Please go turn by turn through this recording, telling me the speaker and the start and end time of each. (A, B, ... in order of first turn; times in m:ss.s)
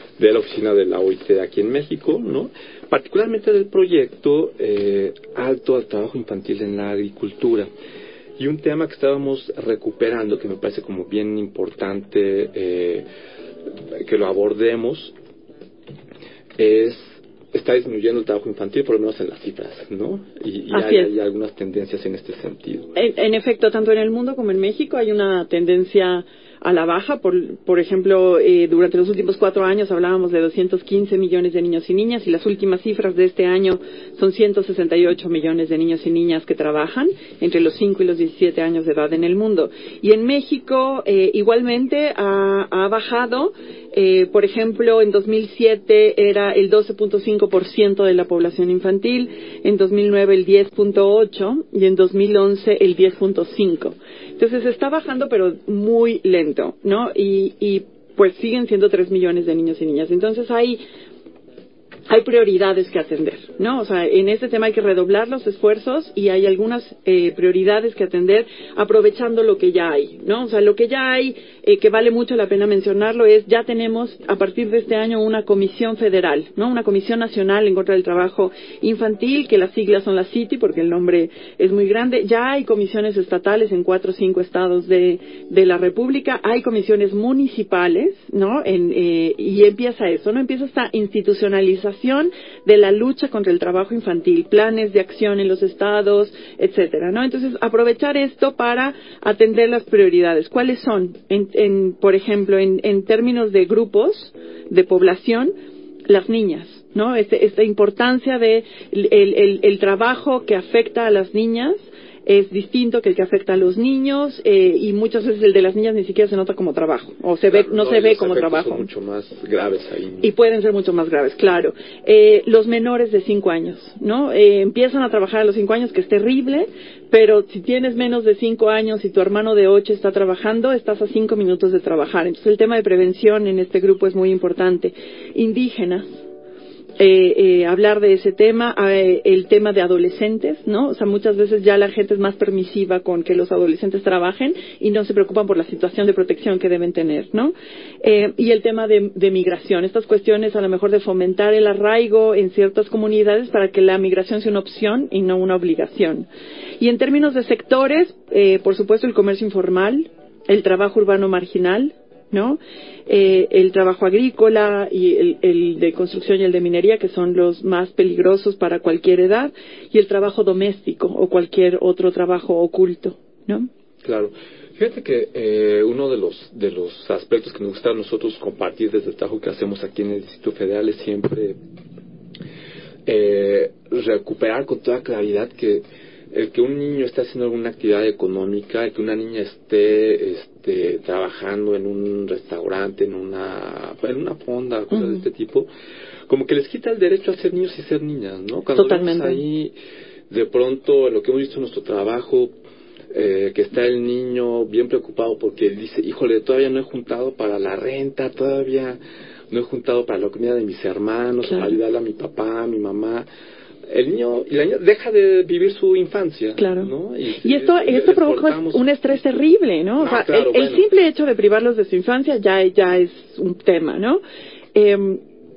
0:00.2-0:07.7 A
0:08.4-0:13.1 A
0:13.9-0:15.1 A
0:16.6-0:22.9 A
0:20.7-0:21.1 B
0:22.9-1:00.8 B
1:02.1-1:45.5 B
1:46.1-1:58.9 B
1:57.5-2:00.3 A
2:00.2-2:16.2 B
2:17.0-2:36.3 B
2:36.8-2:53.7 B
2:54.0-3:01.6 A
3:03.0-3:15.7 A
3:14.9-3:15.2 B
3:16.3-3:19.7 A
3:18.8-3:19.4 B
3:20.3-3:22.5 A
3:23.1-3:29.0 A
3:29.5-3:33.3 A
3:31.5-3:31.8 B
3:33.9-3:38.8 A
3:36.6-3:36.9 B
3:37.4-3:44.2 B
3:40.0-3:40.8 A
3:44.7-3:45.2 B